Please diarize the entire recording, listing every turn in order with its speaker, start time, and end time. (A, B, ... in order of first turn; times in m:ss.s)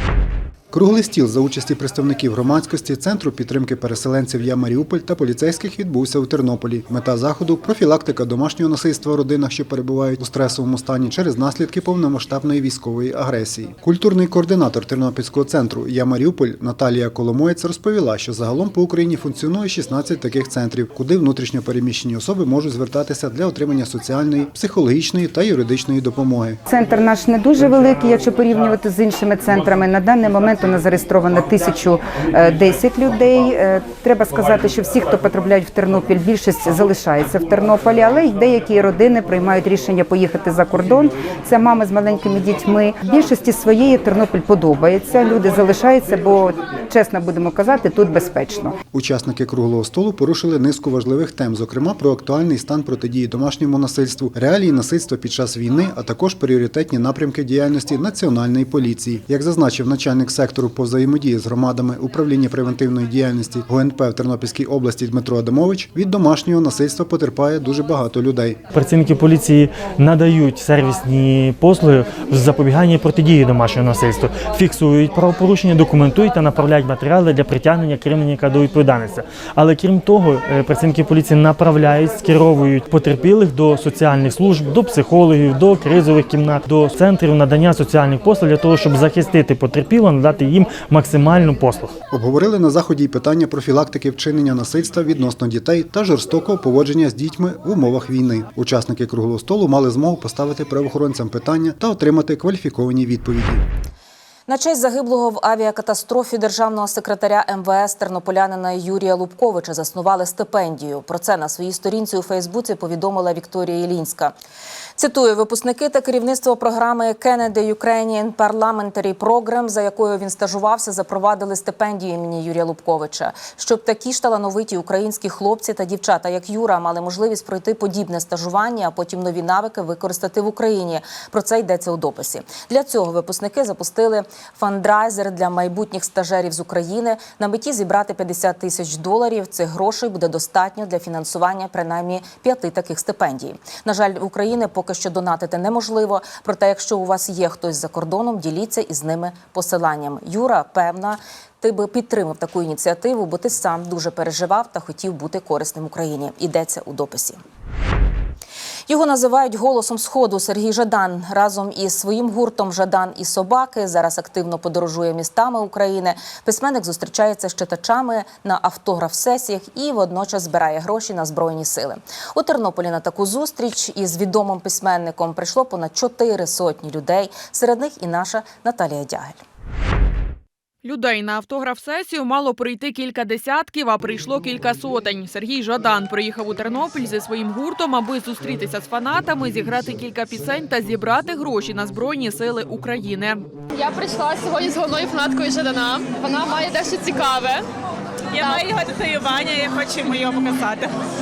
0:00.7-0:26.6 A
0:26.7-0:48.8 B
0:48.9-1:08.6 A
1:08.7-1:31.9 C
1:32.1-1:43.6 A
1:44.5-1:54.3 D
1:55.0-2:37.4 D
2:38.9-2:59.4 D
3:00.8-3:13.5 E
3:13.8-3:17.6 F
3:13.9-3:17.5 G
3:18.4-3:19.0 F
3:18.4-3:20.8 G